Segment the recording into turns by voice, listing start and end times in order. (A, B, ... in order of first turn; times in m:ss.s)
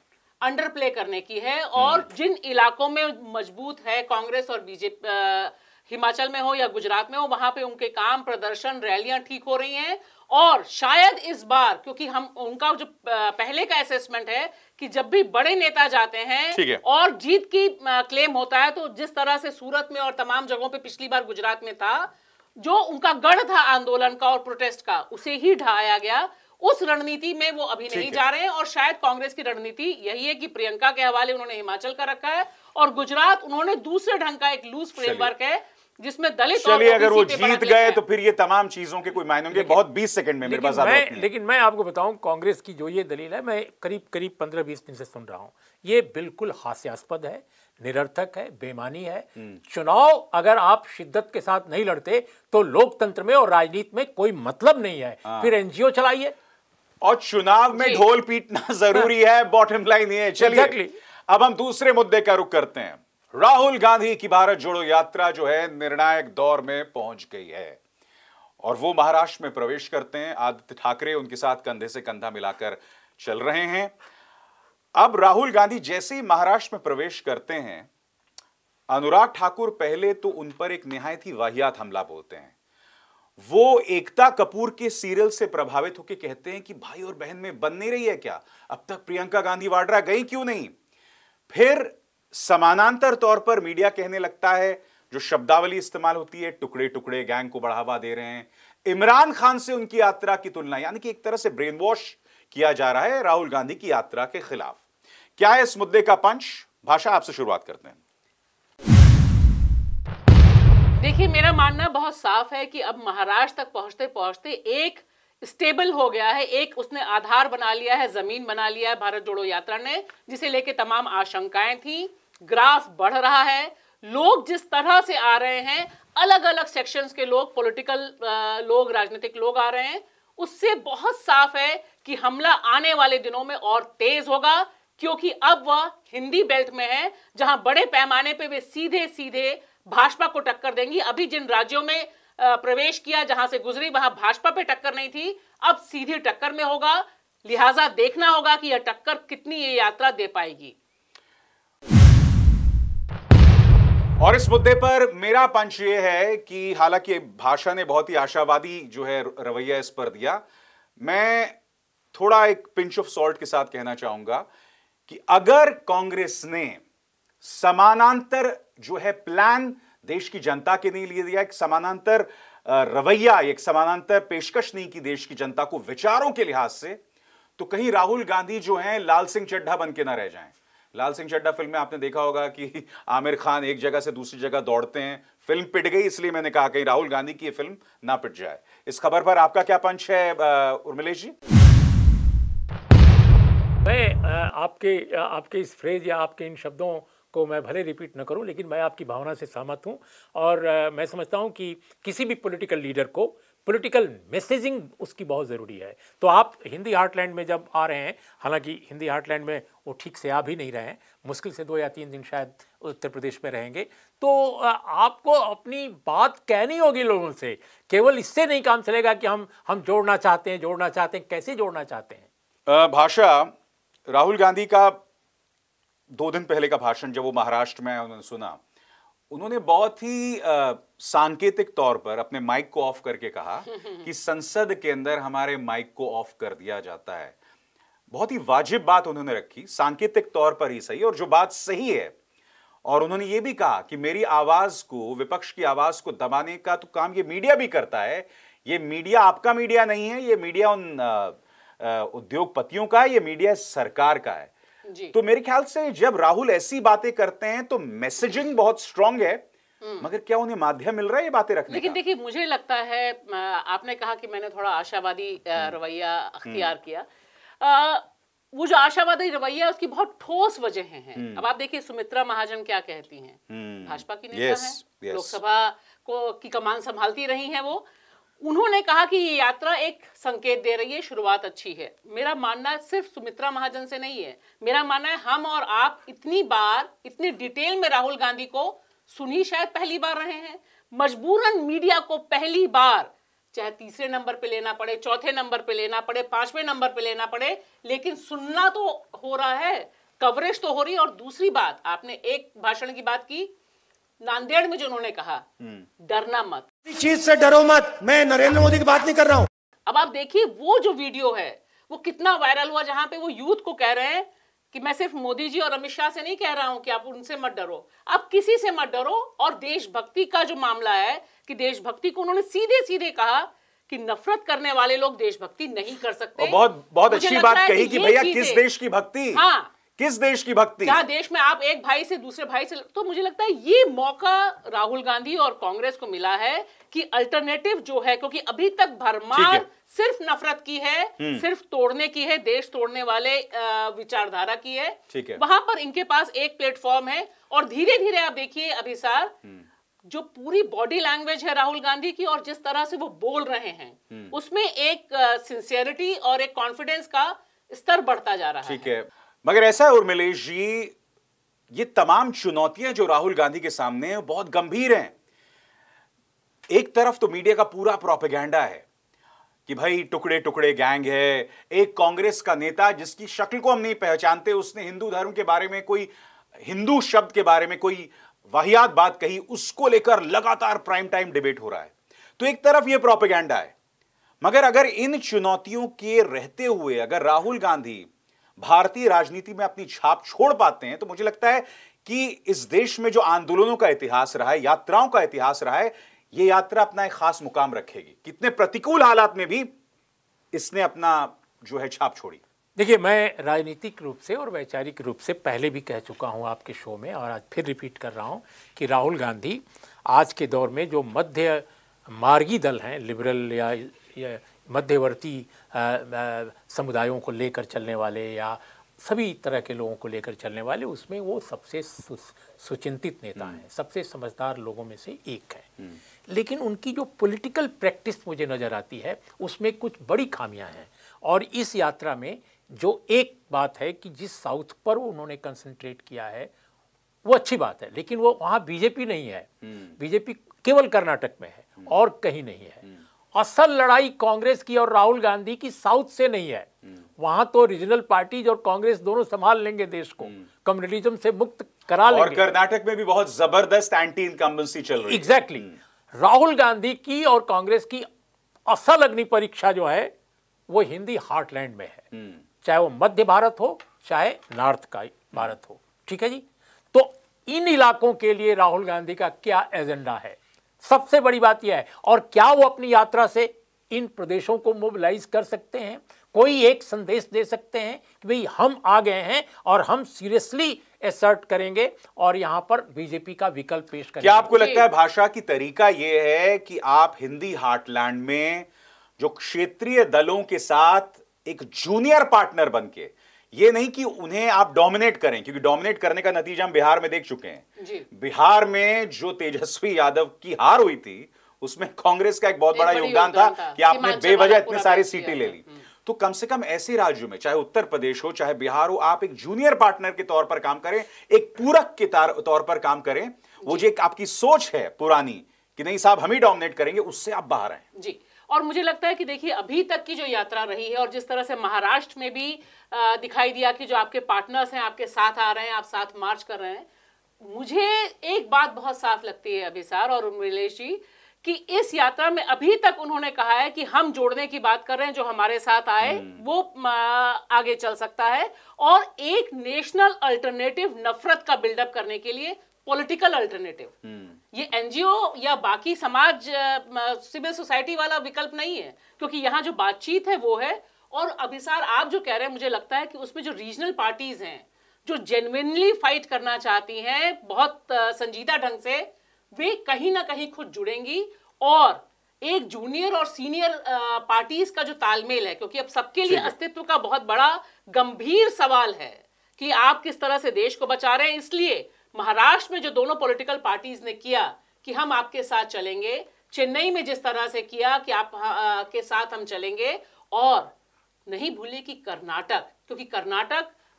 0:00.4-0:38.0 A
0:01.8-0:02.0 B
0:16.5-0:16.8 B
0:27.9-0:28.2 B
0:35.0-0:35.3 B
0:36.5-0:41.3 B
0:40.4-0:56.3 C
0:55.2-0:55.5 B
0:57.0-1:00.8 B
0:57.7-0:58.0 A
1:00.4-1:01.0 C
1:01.3-1:07.8 B
1:08.6-1:13.9 B
1:15.0-1:17.9 B
1:18.9-1:22.5 B
1:23.4-1:30.8 B
1:31.5-1:44.8 B
1:45.4-1:48.0 B
1:51.0-2:30.8 A
2:34.2-2:40.4 B
2:41.0-2:41.5 B
2:42.1-2:44.5 B
2:45.1-2:46.8 B
2:47.4-2:57.0 B
2:57.6-3:11.4 B
3:13.8-3:42.3 C
3:42.7-3:43.5 B
3:44.1-3:45.0 B
3:46.1-3:48.6 B
3:49.3-3:57.4 B
3:53.7-3:54.1 A
3:58.1-4:02.1 B
4:02.8-4:14.5 B
4:14.9-4:15.1 A
4:15.1-4:19.4 B
4:19.8-4:20.1 A
4:20.0-4:22.0 B
4:21.7-4:27.1 A
4:26.4-4:26.7 B
4:27.6-4:37.8 A
4:31.1-4:31.5 B
4:33.5-4:35.4 B
4:38.4-5:03.5 A
5:04.2-5:05.4 A
5:05.6-5:05.9 B
5:06.0-5:06.7 A
5:06.9-5:09.5 D
5:09.9-5:28.6 A
5:26.4-5:29.4 B
5:29.3-5:29.7 A
5:29.9-5:31.0 B
5:30.8-5:49.3 A
5:39.3-5:39.6 B
5:41.2-5:41.4 B
5:45.1-5:45.4 B
5:50.1-5:58.9 A
5:58.6-6:00.9 B
6:01.7-6:05.1 B
6:06.7-6:08.8 B
6:09.7-6:23.7 B
6:24.4-6:39.7 B
6:40.5-6:42.4 B
6:42.8-7:16.5 C
7:03.4-7:03.6 B
7:17.2-7:32.4 C
7:19.6-7:19.9 B
7:32.1-7:35.7 B
7:35.1-7:38.1 C
7:38.7-7:40.1 C
7:40.7-7:42.1 C
7:42.1-7:42.4 B
7:42.6-8:04.6 C
8:04.2-8:08.7 B
8:04.5-8:04.9 A
8:09.2-8:37.8 B
8:17.8-8:18.1 A
8:22.7-8:25.9 A
8:33.6-8:33.9 A
8:37.9-8:46.9 A
8:47.4-9:03.9 A
8:56.0-8:56.4 B
9:04.0-9:04.4 B
9:04.5-9:40.7 A
9:26.3-9:26.6 B
9:41.3-9:43.7 A